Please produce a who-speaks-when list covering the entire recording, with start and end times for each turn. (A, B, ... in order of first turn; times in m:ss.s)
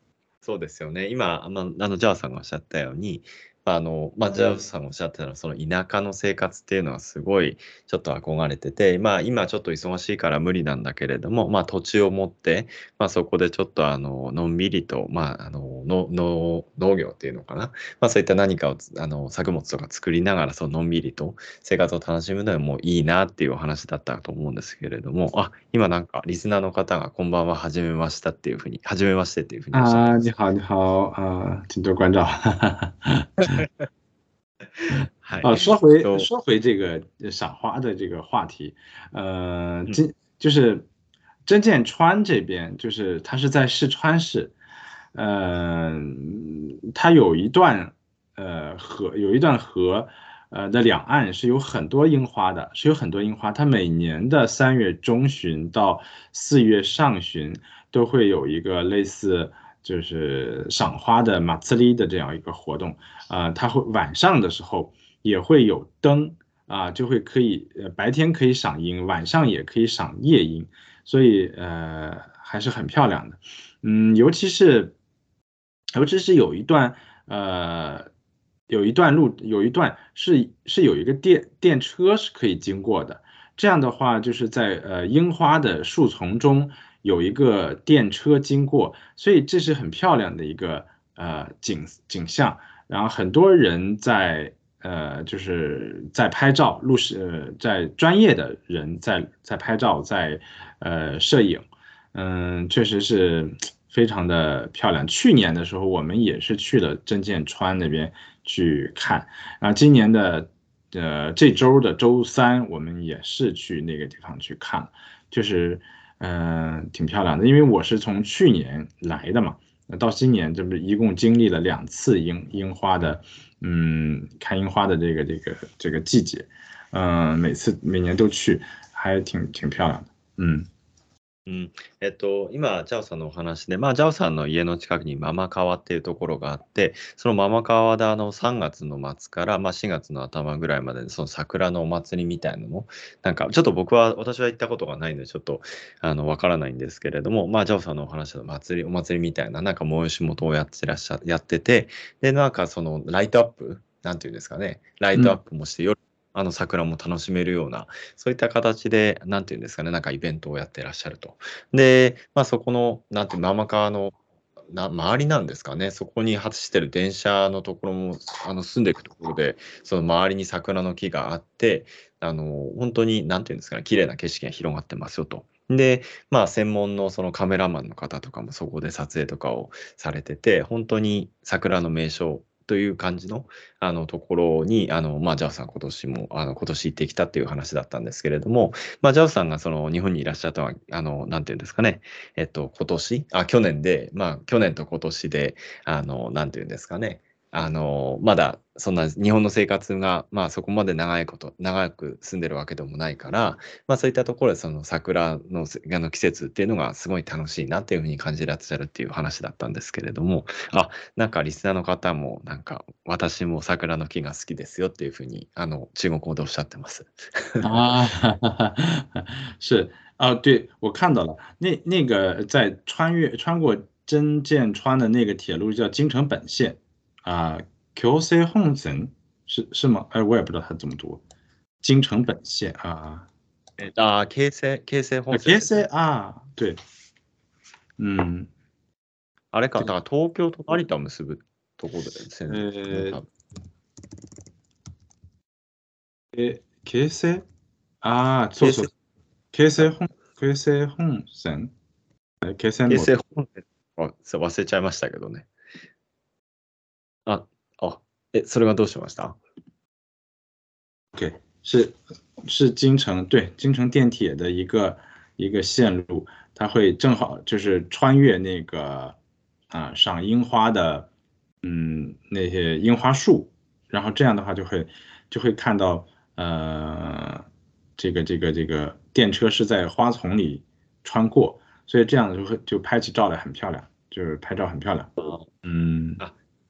0:00.4-0:30.3 A
0:29.7-0:33.6 B
0:33.4-0:33.9 A
0:34.8-0:36.3 A
0:35.4-0:40.9 B
0:41.4-0:44.5 B
0:45.1-1:14.9 B
1:15.9-1:18.1 B
1:18.7-2:10.7 B
2:11.4-2:44.2 A
2:35.1-2:35.4 B
2:44.7-3:37.9 A
3:37.6-3:51.2 B
3:51.8-3:53.3 B
3:53.8-3:55.8 A
3:55.3-3:56.8 B
3:58.0-3:58.5 B
3:59.5-4:03.3 A
4:02.5-4:03.2 B
4:06.3-4:07.4 B
4:08.0-4:08.9 B
4:08.6-4:08.9 A
4:09.5-4:11.7 B
4:12.4-4:13.1 B
4:12.9-4:15.5 A
4:17.2-4:19.4 A
4:21.1-4:29.2 B
4:29.7-4:31.1 B
4:31.6-4:37.4 B
4:38.0-4:45.1 B
4:45.2-4:45.5 A
4:45.6-4:46.2 B